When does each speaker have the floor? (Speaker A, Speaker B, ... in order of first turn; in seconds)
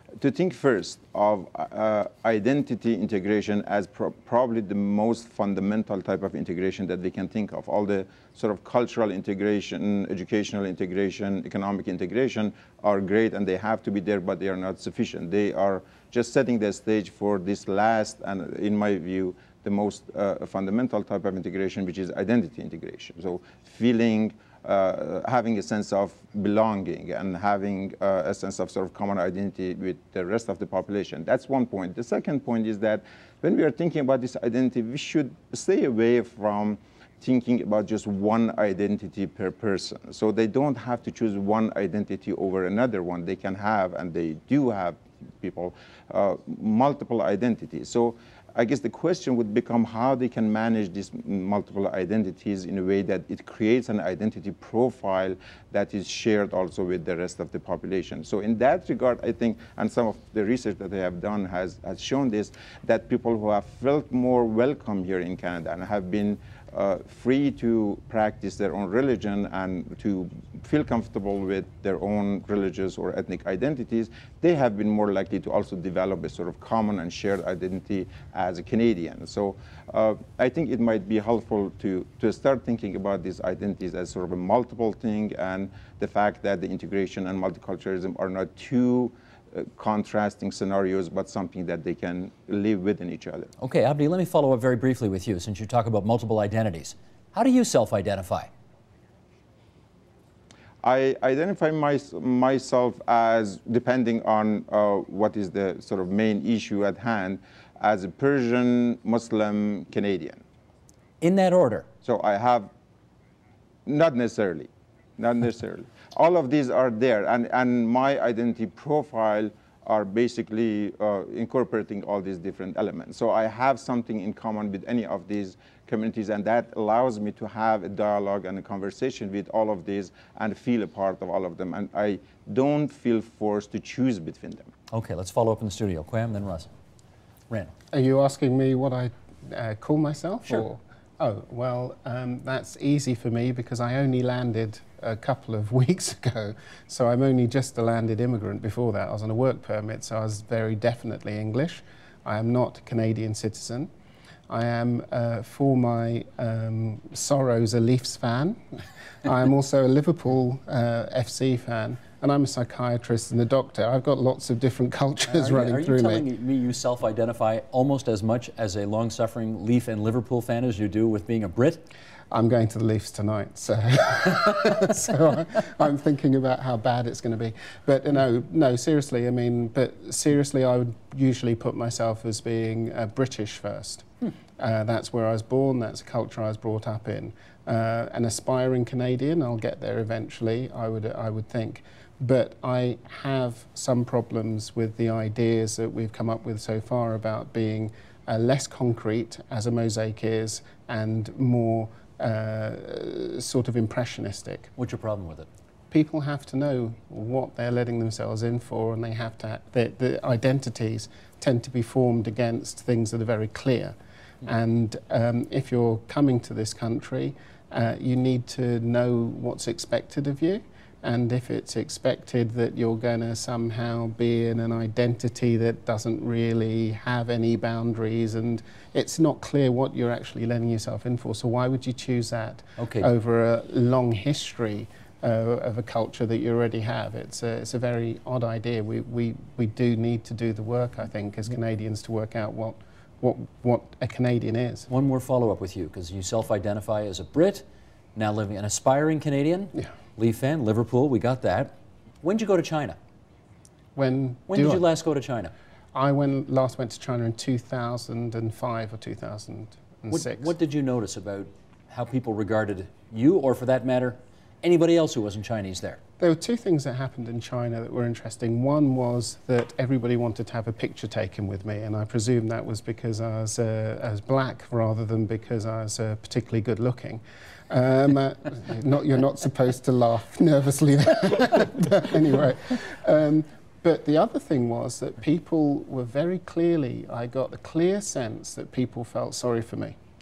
Speaker A: 0.2-93.5, 100.8-110.4, 112.0-112.7, 113.8-134.7
Speaker B: 93.6-98.5, 111.2-111.9, 134.9-136.7, 165.3-171.8, 204.8-205.5, 232.8-233.1, 244.9-253.0, 254.5-255.5, 260.1-266.0
Speaker C: 137.9-153.9, 154.5-166.2, 172.3-204.7, 205.9-244.9, 253.9-254.8, 255.9-260.5, 266.2-289.9